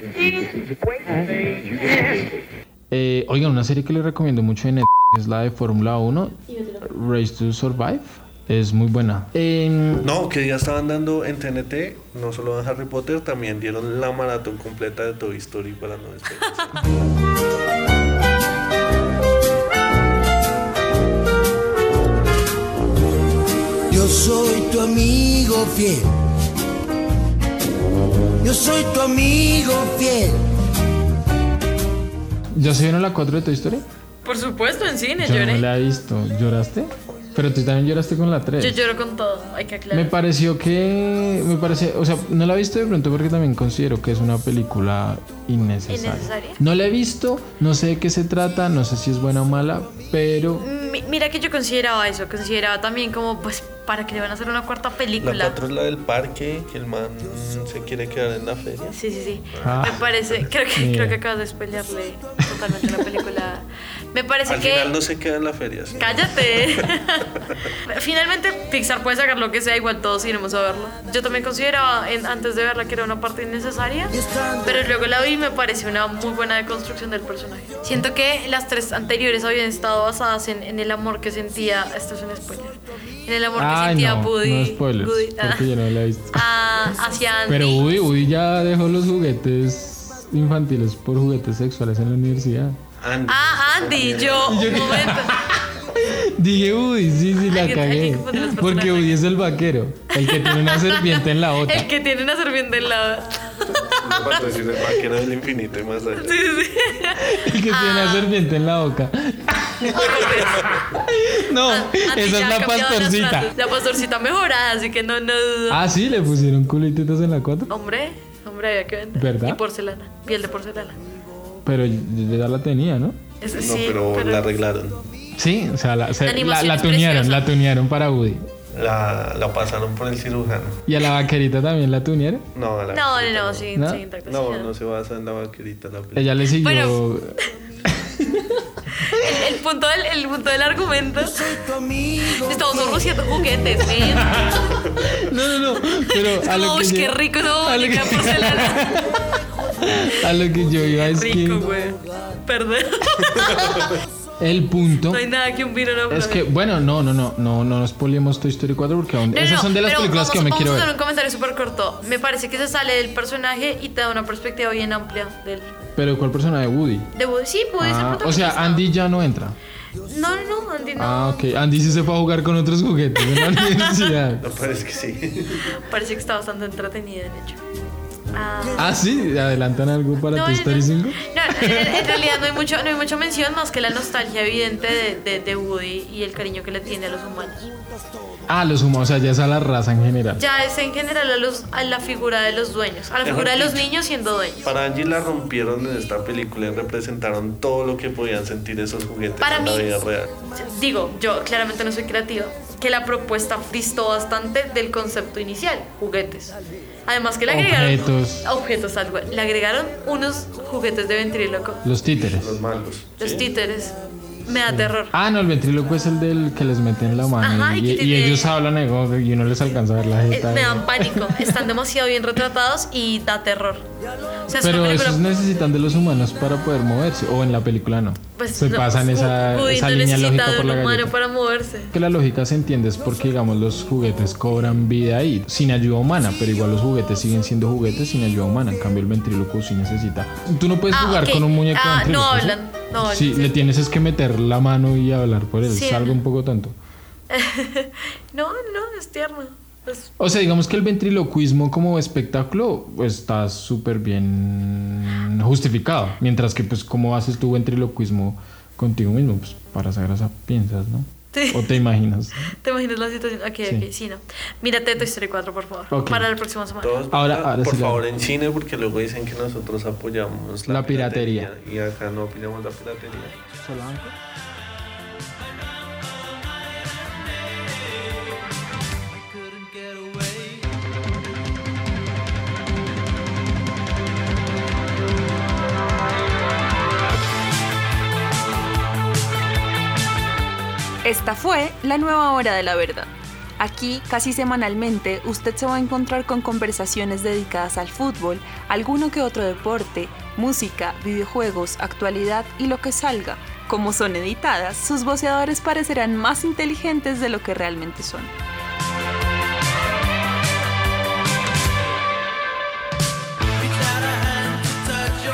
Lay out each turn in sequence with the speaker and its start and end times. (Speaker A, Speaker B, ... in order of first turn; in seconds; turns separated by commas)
Speaker A: 2.9-10.1, Speaker B: 10.0-16.7, Speaker C: 23.9-26.1, Speaker C: 28.4-30.4, Speaker A: 32.5-33.8, Speaker D: 34.2-35.6, Speaker A: 35.2-38.8, Speaker D: 38.6-40.1, Speaker A: 39.9-50.7, Speaker D: 45.9-46.6, Speaker D: 50.6-55.6, Speaker B: 55.2-59.0, Speaker D: 58.9-65.0, Speaker B: 59.5-60.5, Speaker A: 59.6-60.0, Speaker A: 60.7-61.2, Speaker B: 64.5-66.8, Speaker D: 66.0-85.7, Speaker C: 74.2-74.8, Speaker A: 83.5-86.5, Speaker D: 86.3-87.8, Speaker A: 87.5-92.8, Speaker B: 93.0-95.0, Speaker D: 93.2-95.3, Speaker A: 94.4-101.9, Speaker D: 97.4-99.2, Speaker D: 100.1-104.5, Speaker B: 104.0-106.3, Speaker D: 106.2-108.3, Speaker A: 107.2-113.5, Speaker D: 109.8-110.8, Speaker D: 111.6-115.8, Speaker A: 115.7-117.7, Speaker D: 117.7-121.0, Speaker A: 119.1-119.6, Speaker A: 121.6-123.2, Speaker D: 123.4-124.5, Speaker B: 123.5-125.0, Speaker A: 125.4-128.4, Speaker D: 126.2-127.5, Speaker B: 128.7-130.8, Speaker A: 130.8-132.4, Speaker B: 132.5-133.7, Speaker D: 132.9-134.7, Speaker A: 133.7-134.0, Speaker B: 134.2-136.3, Speaker A: 136.1-137.3, Speaker D: 136.6-137.0, Speaker A: 137.9-139.4, Speaker D: 139.0-141.5, Speaker C: 141.2-143.0, Speaker D: 142.2-144.5, Speaker A: 144.0-149.2, Speaker D: 146.1-149.0, Speaker A: 149.8-151.7, Speaker D: 150.8-153.9, Speaker A: 154.4-155.2, Speaker D: 155.1-156.4, Speaker A: 156.1-160.9, Speaker D: 159.3-165.7, Speaker A: 165.9-167.1, Speaker D: 167.1-168.9, Speaker A: 167.8-169.6, Speaker D: 170.0-171.5, Speaker A: 170.9-174.4, Speaker D: 173.3-174.1, Speaker B: 174.4-175.6, Speaker D: 175.8-177.6, Speaker D: 178.3-179.0, Speaker A: 178.7-182.2, Speaker D: 180.3-187.7, Speaker A: 188.5-190.4, Speaker D: 190.3-194.7, Speaker B: 193.2-193.9, Speaker B: 194.6-200.3, Speaker D: 199.4-199.9, Speaker D: 200.5-211.8, Speaker A: 207.5-208.5, Speaker A: 211.8-212.6, Speaker B: 212.2-213.4, Speaker D: 213.2-215.1, Speaker A: 214.7-221.7, Speaker D: 217.4-218.5, Speaker D: 220.3-223.8, Speaker D: 224.4-225.2, Speaker A: 224.5-231.1, Speaker D: 228.3-231.9, Speaker A: 231.9-246.7, Speaker D: 240.9-243.6, Speaker D: 245.6-246.2, Speaker D: 247.3-250.1, Speaker A: 250.2-262.5, Speaker D: 261.3-261.8, Speaker D: 262.5-267.1, Speaker A: 265.9-266.3, Speaker B: 266.8-273.4, Speaker A: 267.1-268.0, Speaker A: 270.7-271.5, Speaker A: 273.6-274.1, Speaker E: 291.0-308.3, Speaker C: 314.2-314.4